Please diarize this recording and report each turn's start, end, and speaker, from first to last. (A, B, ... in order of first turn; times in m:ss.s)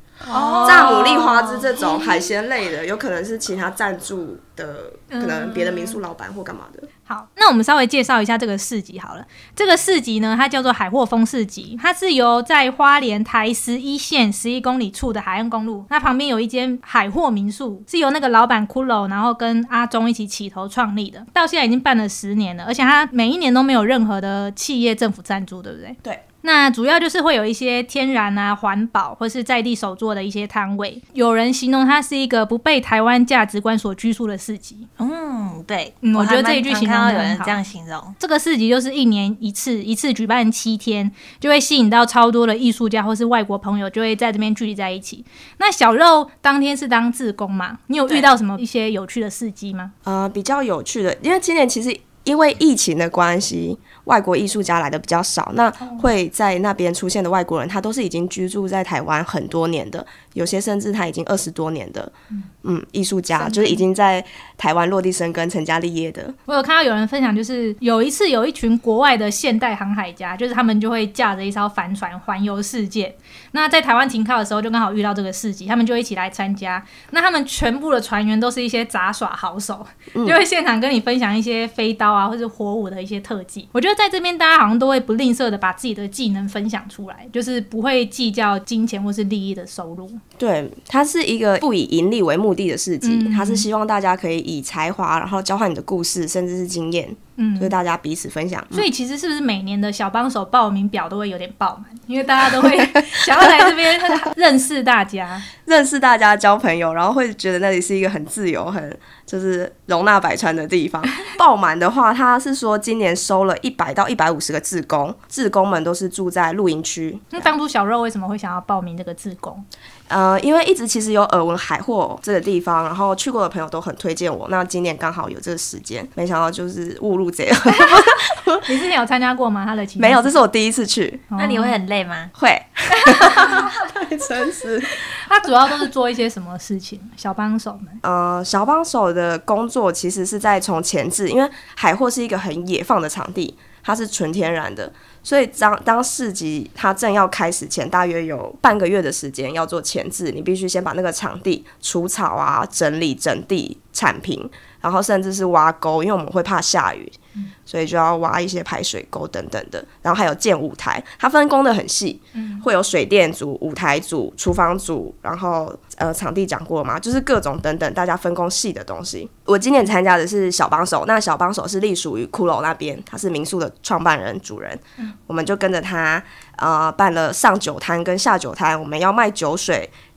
0:00.3-0:01.1 A
0:00.3-0:01.4 B
0:00.6-0:06.9 C
0:05.1-0:06.0 B
0:07.1-0:34.9 B
0:35.0-0:38.2 A
0:36.0-0:37.6 B
0:38.2-0:49.9 B
0:50.0-1:02.1 C
1:02.6-1:06.4 C
1:03.4-1:03.8 B
1:06.5-1:30.2 B
1:20.1-1:20.4 C
1:30.4-1:38.9 C
1:33.0-1:33.6 B
1:37.4-1:37.7 B
1:38.7-1:45.4 B
1:43.2-1:43.6 C
1:45.6-1:57.5 C
1:57.3-1:59.6 B
2:00.1-2:08.6 C
2:08.6-2:10.4 B
2:10.0-2:11.2 C
2:11.3-2:11.8 B
2:11.4-2:12.3 A
2:12.4-2:15.0 C
2:13.0-2:13.7 B
2:15.2-2:18.0 B
2:18.0-2:59.9 C
2:42.3-2:42.6 B